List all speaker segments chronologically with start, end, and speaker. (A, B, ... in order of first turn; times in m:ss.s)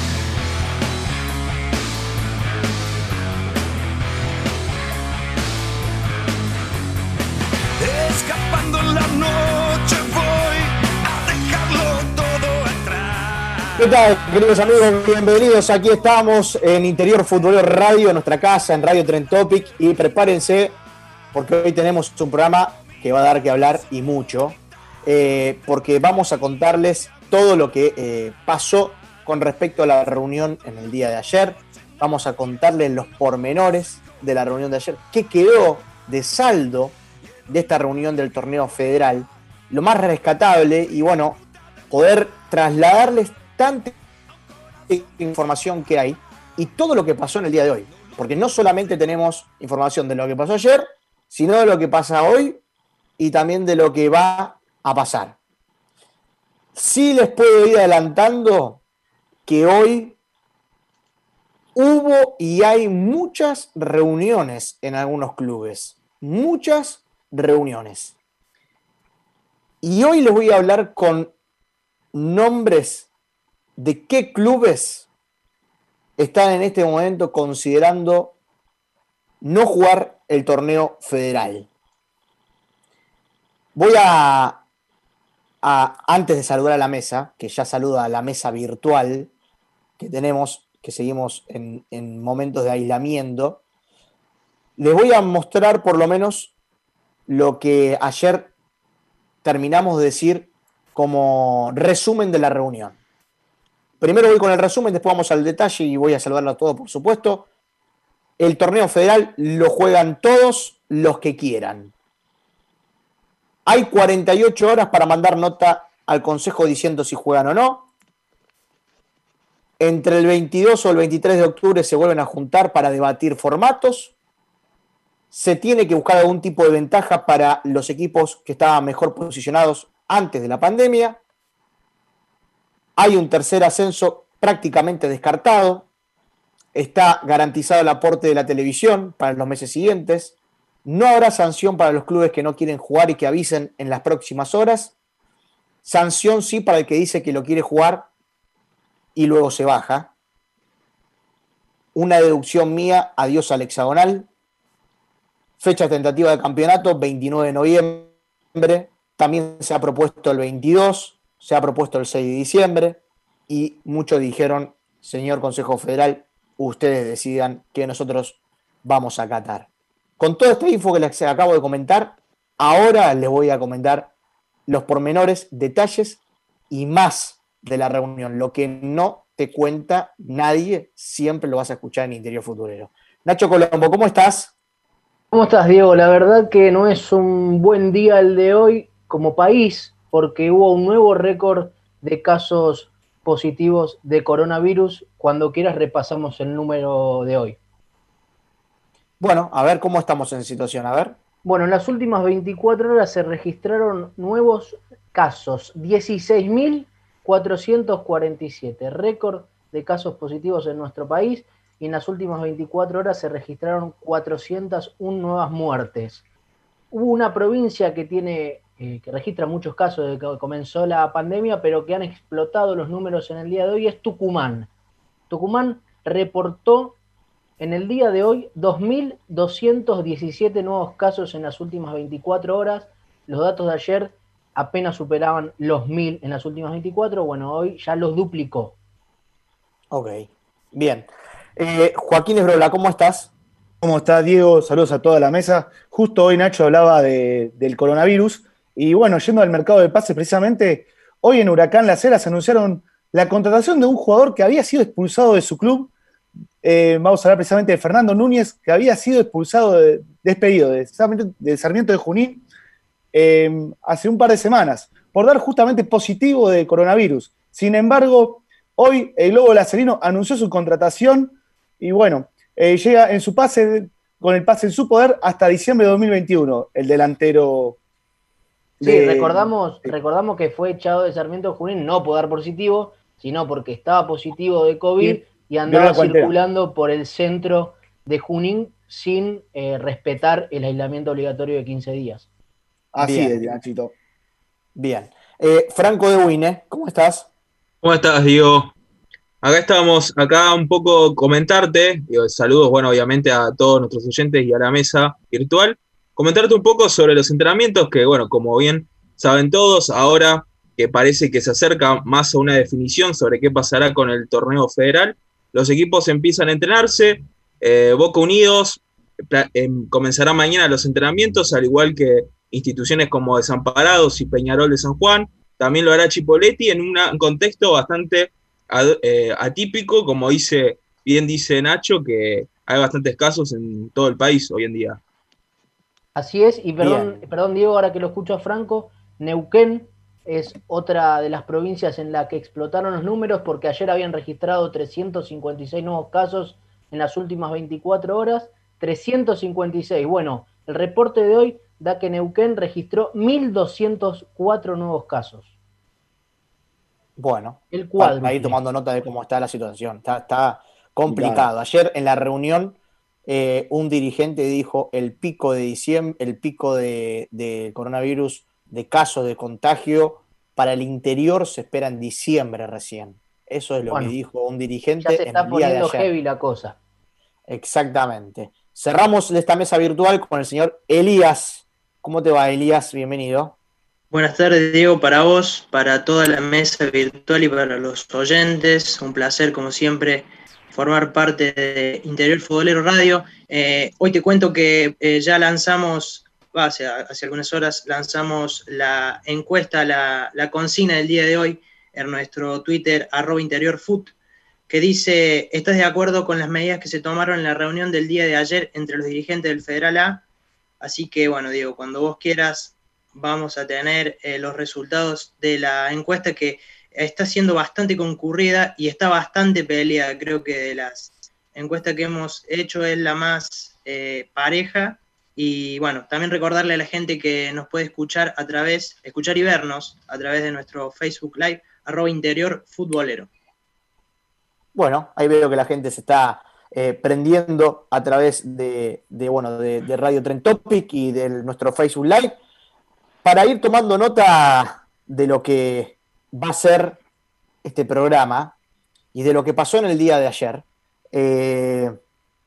0:08.3-0:10.4 A
0:11.5-0:12.7 A
0:13.8-0:20.8 B
0:21.3-0:37.0 B
0:37.5-0:41.4 B
0:41.9-0:43.9 B
0:44.9-0:52.6 B
0:53.2-0:55.4 B
0:56.7-0:58.8 B
0:59.4-1:00.2 B
1:01.7-1:08.1 B
1:09.8-1:11.3 B
1:12.1-1:13.1 B
1:13.8-1:15.1 B
1:16.2-1:18.3 B
1:19.4-1:21.7 B
1:23.7-1:24.6 B
1:25.6-1:29.3 B
1:30.0-1:33.6 B
1:34.8-1:36.5 B
1:37.3-1:38.5 B
1:39.4-1:43.0 B
1:44.0-1:47.4 B
1:48.4-1:51.9 B
1:53.6-1:57.9 B
1:59.8-2:04.1 B
2:05.3-2:11.2 B
2:13.0-2:15.9 B
2:16.7-2:20.3 B
2:20.8-2:24.9 B
2:25.8-2:28.1 B
2:29.1-2:30.1 B
2:31.9-2:34.3 B
2:35.6-2:49.7 B
2:50.2-2:54.1 B
2:54.7-3:04.5 B
3:05.3-3:17.6 C
3:19.2-3:21.2 B
3:21.4-3:36.2 C
3:36.9-3:44.7 C
3:45.3-3:47.0 C
3:47.6-3:58.7 C
3:59.9-4:03.3 B
4:03.8-4:15.9 D
4:16.6-4:22.4 D
4:23.1-4:37.8 D
4:38.8-4:39.9 D
4:38.8-4:52.3 C
4:45.0-4:46.3 D
4:52.9-4:53.9 D
4:53.0-4:53.5 B
4:54.8-4:57.3 B
4:57.8-4:58.7 E
4:59.4-5:35.0 E
5:36.2-5:55.5 C
5:57.2-6:16.1 B
5:57.7-5:58.6 C
6:01.1-6:01.5 D
6:15.0-6:16.8 C
6:17.5-6:23.5 B
6:24.1-6:44.1 F
6:44.7-6:50.2 F
6:50.8-7:13.3 F
7:14.7-7:22.4 B
7:23.2-7:27.0 B
7:27.6-7:28.5 B
7:29.1-7:32.0 B